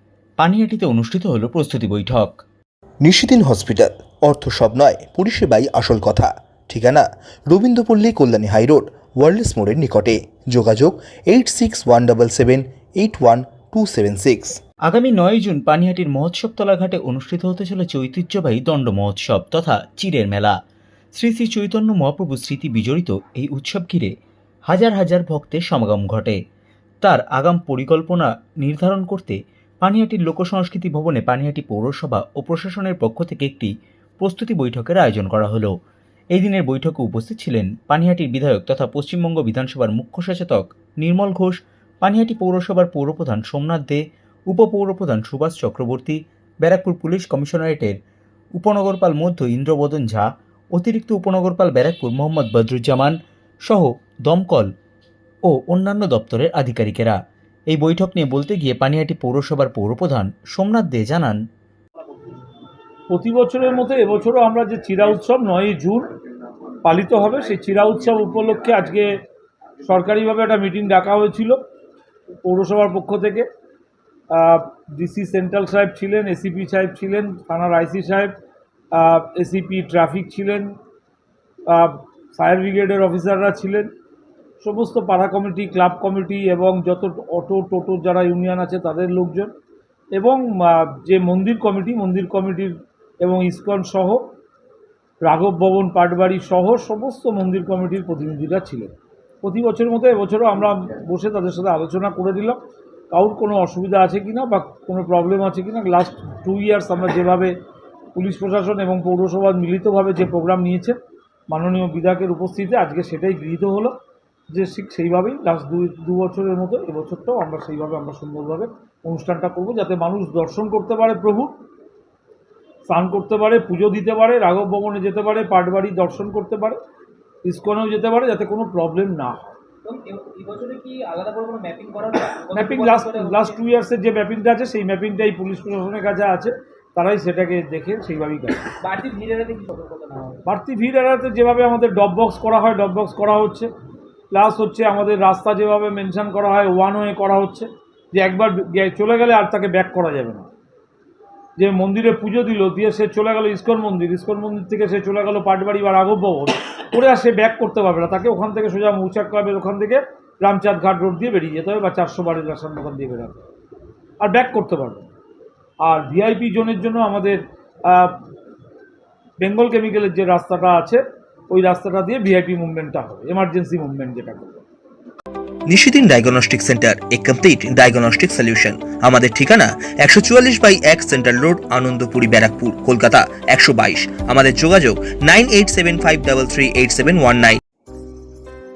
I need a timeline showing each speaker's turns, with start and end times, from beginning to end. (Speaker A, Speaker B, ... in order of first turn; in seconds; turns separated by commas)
Speaker A: 0.4-2.4, Speaker B: 3.0-14.6, Speaker A: 14.8-20.6, Speaker A: 21.1-24.1, Speaker A: 24.6-26.4, Speaker A: 27.0-35.7, Speaker A: 36.3-48.0, Speaker A: 48.5-54.7, Speaker A: 55.5-57.2, Speaker A: 57.7-61.4, Speaker C: 63.1-66.1, Speaker C: 66.8-69.1, Speaker C: 69.8-71.6, Speaker C: 72.4-73.5, Speaker C: 74.3-78.3, Speaker C: 78.9-80.7, Speaker C: 81.7-83.9, Speaker C: 84.6-89.5, Speaker C: 90.2-94.2, Speaker C: 95.2-98.9, Speaker C: 99.4-102.6, Speaker C: 103.1-107.5, Speaker C: 108.1-111.0, Speaker C: 111.5-113.9, Speaker C: 114.5-121.5, Speaker C: 122.9-126.8, Speaker C: 127.4-129.5, Speaker D: 129.8-133.6, Speaker C: 132.5-138.7, Speaker D: 138.8-140.4, Speaker C: 140.4-143.7, Speaker C: 144.3-150.5, Speaker C: 151.6-163.4, Speaker C: 164.2-165.1, Speaker C: 165.8-168.2, Speaker C: 169.4-174.6, Speaker B: 175.7-187.6